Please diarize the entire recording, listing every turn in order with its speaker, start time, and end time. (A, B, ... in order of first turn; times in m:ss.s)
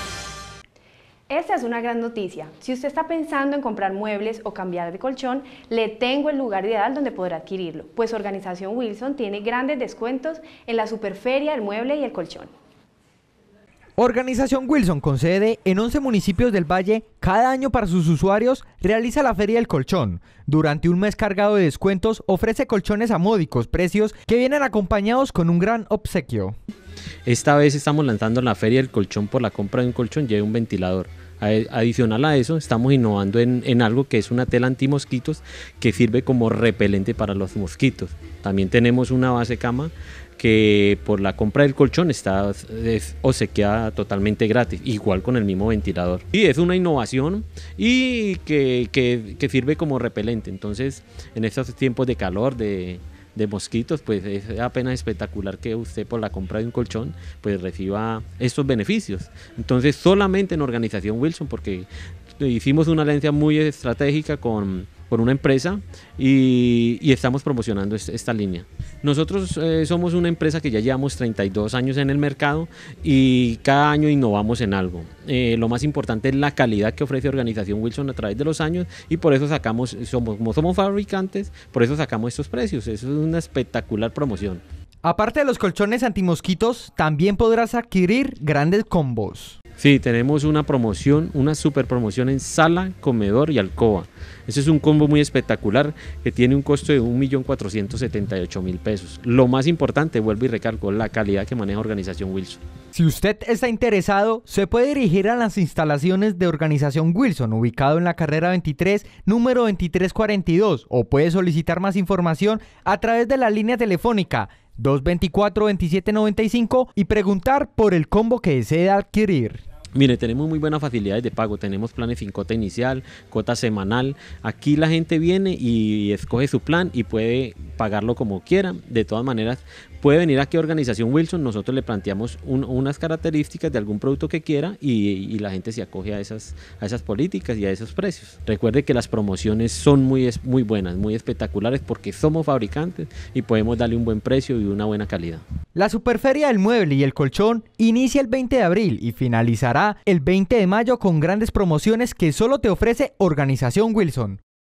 0:01.3-0:12.5 A
0:14.0-0:26.6 B
0:27.2-1:24.6 C
1:25.0-1:29.6 B
1:29.8-1:42.6 C
1:42.9-1:59.6 B
1:59.9-2:25.4 C
2:25.7-2:34.4 B